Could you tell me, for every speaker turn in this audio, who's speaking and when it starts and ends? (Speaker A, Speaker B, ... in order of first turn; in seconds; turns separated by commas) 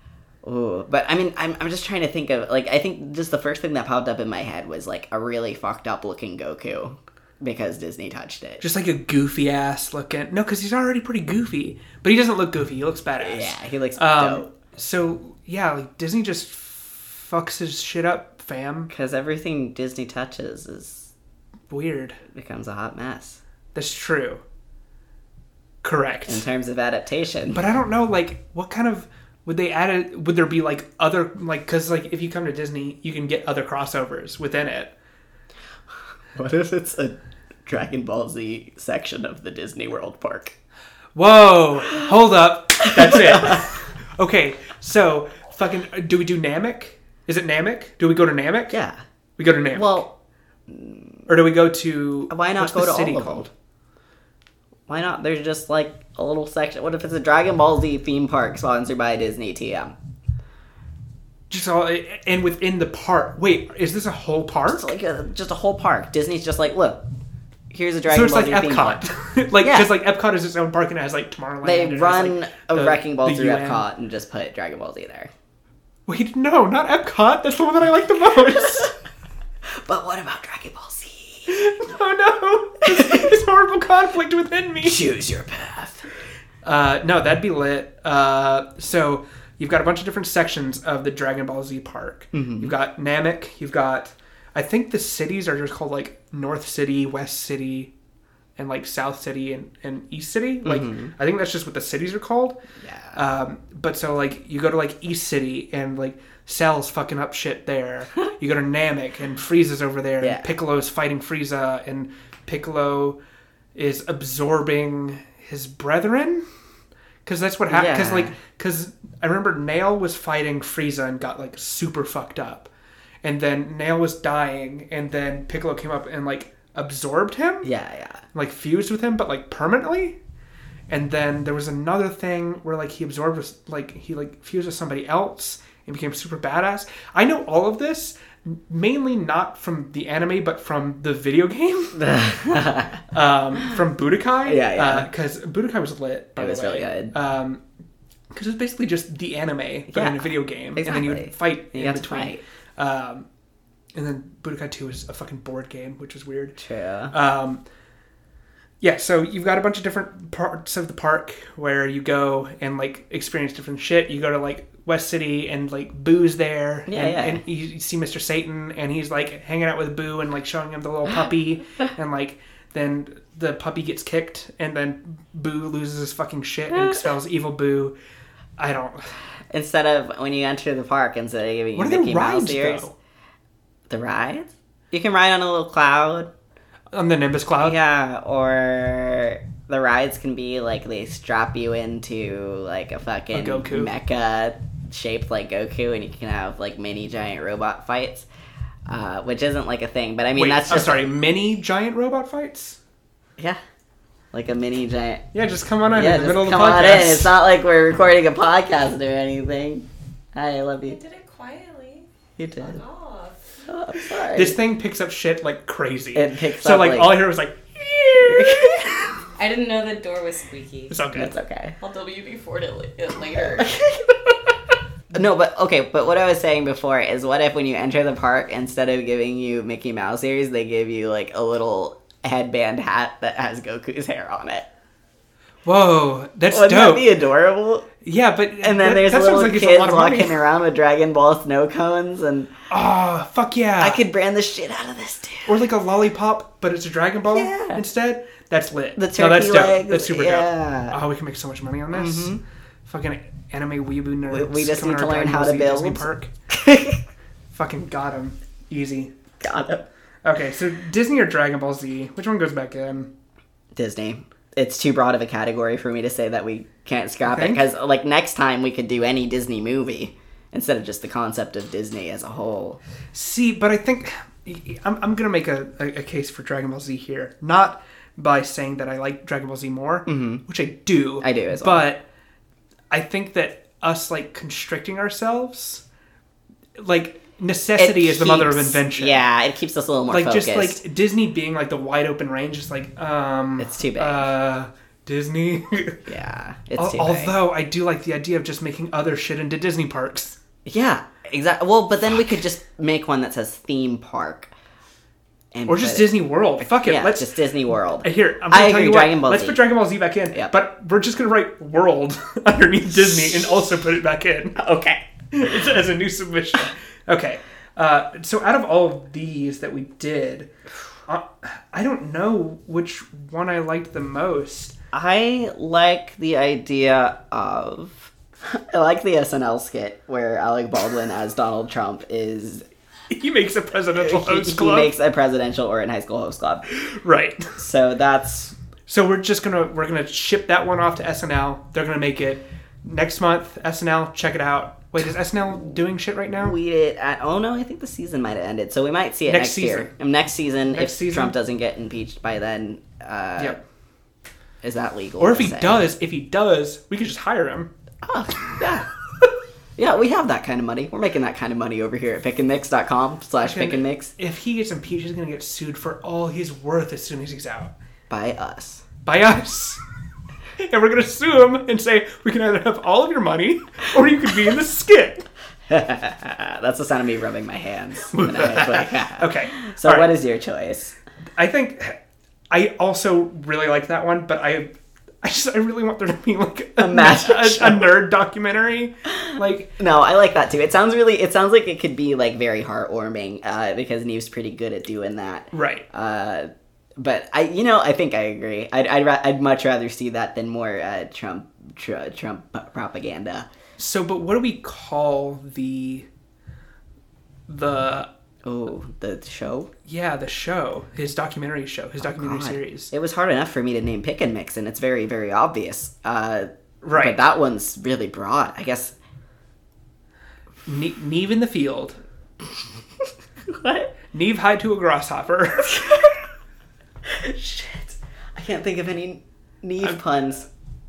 Speaker A: 0.4-8.6, Speaker B: 8.6-18.9, Speaker A: 13.2-14.5, Speaker A: 18.9-21.1, Speaker B: 21.7-22.2, Speaker A: 22.3-23.4, Speaker B: 23.8-24.4, Speaker B: 25.8-26.4, Speaker A: 26.3-27.6, Speaker B: 27.5-34.9, Speaker A: 36.4-40.5, Speaker B: 41.1-48.8, Speaker A: 43.0-43.6, Speaker A: 48.7-49.0, Speaker B: 49.4-50.1, Speaker A: 49.7-50.1, Speaker A: 50.7-51.3, Speaker B: 51.3-53.5, Speaker A: 52.3-53.5, Speaker A: 54.9-60.0, Speaker B: 61.5-64.9, Speaker A: 64.7-67.0, Speaker A: 67.7-69.0, Speaker B: 68.1-73.8, Speaker A: 69.6-69.9, Speaker A: 71.6-75.3, Speaker B: 76.1-79.0, Speaker A: 79.8-81.5, Speaker B: 81.5-85.1, Speaker A: 82.8-83.3, Speaker A: 84.8-86.1, Speaker B: 86.6-97.9, Speaker A: 92.3-92.7, Speaker B: 98.6-102.6, Speaker A: 100.6-101.1, Speaker A: 102.8-103.2, Speaker B: 103.1-113.2, Speaker A: 110.2-110.5, Speaker B: 113.8-116.4, Speaker B: 117.2-122.7, Speaker A: 117.7-118.4, Speaker B: 123.2-127.7, Speaker A: 127.6-128.2, Speaker B: 128.3-130.2, Speaker B: 130.9-142.1, Speaker A: 141.9-143.0, Speaker B: 143.1-147.6, Speaker A: 144.4-145.1, Speaker A: 146.4-147.1, Speaker B: 148.3-153.3, Speaker A: 149.9-152.4, Speaker B: 153.9-156.6, Speaker A: 156.6-157.1, Speaker B: 157.1-157.6, Speaker B: 158.8-177.9, Speaker A: 166.9-167.4, Speaker A: 176.7-177.0, Speaker B: 178.6-179.1, Speaker A: 179.5-182.9, Speaker B: 181.8-182.9, Speaker A: 183.9-186.3, Speaker B: 186.9-187.8, Speaker A: 187.6-198.3, Speaker B: 193.3-193.9, Speaker A: 198.9-201.0, Speaker B: 200.3-202.8, Speaker A: 204.3-205.3, Speaker B: 205.3-207.3, Speaker A: 205.9-211.0, Speaker C: 210.9-212.1, Speaker A: 212.4-212.8, Speaker C: 212.6-213.7, Speaker A: 213.7-214.6, Speaker B: 214.3-219.1, Speaker A: 216.1-217.2, Speaker A: 218.2-218.9, Speaker C: 219.4-221.0, Speaker B: 220.9-221.4, Speaker A: 221.2-221.8, Speaker C: 221.8-223.8, Speaker A: 223.3-224.5, Speaker A: 225.1-234.7, Speaker B: 235.7-237.1, Speaker A: 236.5-237.9, Speaker B: 238.0-240.5, Speaker A: 238.6-242.5, Speaker B: 242.7-244.0, Speaker A: 243.8-245.6, Speaker B: 245.5-256.3, Speaker A: 247.3-247.8, Speaker A: 249.0-251.0, Speaker A: 251.9-252.4, Speaker A: 254.3-257.0, Speaker B: 257.5-259.1, Speaker A: 259.4-259.9, Speaker B: 260.2-263.1, Speaker A: 263.8-272.8, Speaker B: 267.2-267.6, Speaker B: 273.1-282.1, Speaker A: 280.1-280.4, Speaker A: 281.2-281.9, Speaker B: 282.9-285.8, Speaker B: 286.8-289.3, Speaker A: 287.8-290.8, Speaker B: 290.1-296.1, Speaker A: 293.6-294.3, Speaker A: 296.1-297.4, Speaker B: 296.8-300.4, Speaker A: 300.6-304.5, Speaker A: 305.5-309.7, Speaker B: 305.7-307.3, Speaker B: 308.0-314.6, Speaker A: 314.6-315.1, Speaker B: 315.3-320.5, Speaker B: 321.1-324.7, Speaker A: 324.9-332.6, Speaker B: 333.1-334.9, Speaker A: 334.0-336.6, Speaker B: 336.7-337.5, Speaker A: 337.6-338.6, Speaker B: 338.9-346.6, Speaker A: 346.4-353.6, Speaker B: 349.3-349.9, Speaker B: 350.7-351.4, Speaker B: 353.4-353.6, Speaker A: 354.6-355.8, Speaker B: 355.2-357.7, Speaker A: 358.0-358.9, Speaker A: 359.8-364.1, Speaker B: 363.4-367.7, Speaker A: 368.1-368.8, Speaker B: 369.1-369.8, Speaker B: 370.6-375.3, Speaker A: 375.7-381.0, Speaker B: 378.1-380.1, Speaker B: 381.4-382.0, Speaker B: 382.5-389.7, Speaker A: 386.8-387.9, Speaker A: 389.8-403.5, Speaker B: 395.5-395.9, Speaker B: 403.8-406.1, Speaker B: 407.5-408.1, Speaker A: 408.4-409.7, Speaker B: 409.9-412.9, Speaker A: 412.0-418.9, Speaker B: 416.8-417.2, Speaker B: 420.7-422.0, Speaker A: 423.5-423.9, Speaker B: 424.1-426.0, Speaker A: 427.1-430.5